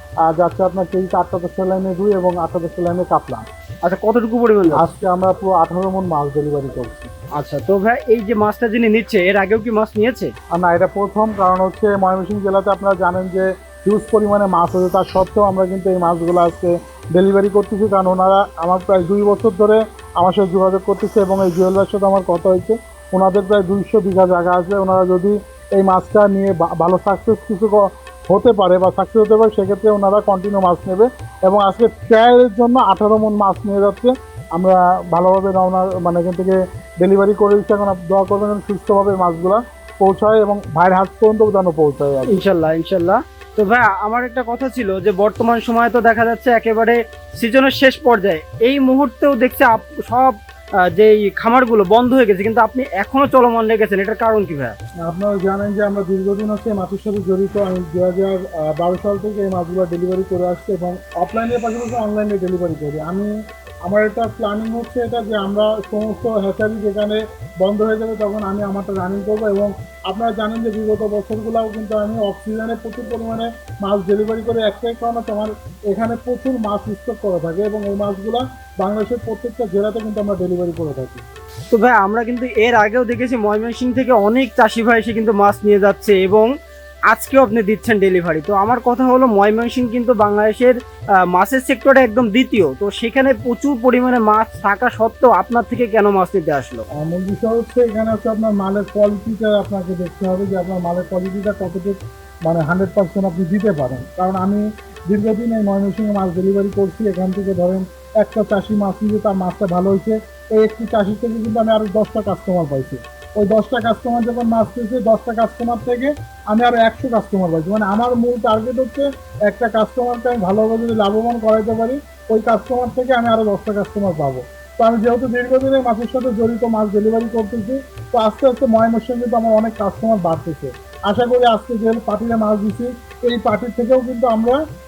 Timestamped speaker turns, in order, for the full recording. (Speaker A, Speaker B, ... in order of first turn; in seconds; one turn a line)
Speaker A: 0.2-3.4
Speaker B: 3.8-4.9
Speaker A: 4.7-7.1
Speaker B: 7.4-10.3
Speaker A: 10.5-42.4
Speaker B: 42.3-54.7
Speaker A: 55.0-63.3
Speaker A: 63.9-81.2
Speaker B: 81.7-86.5
Speaker B: 87.1-96.9
Speaker A: 97.0-134.6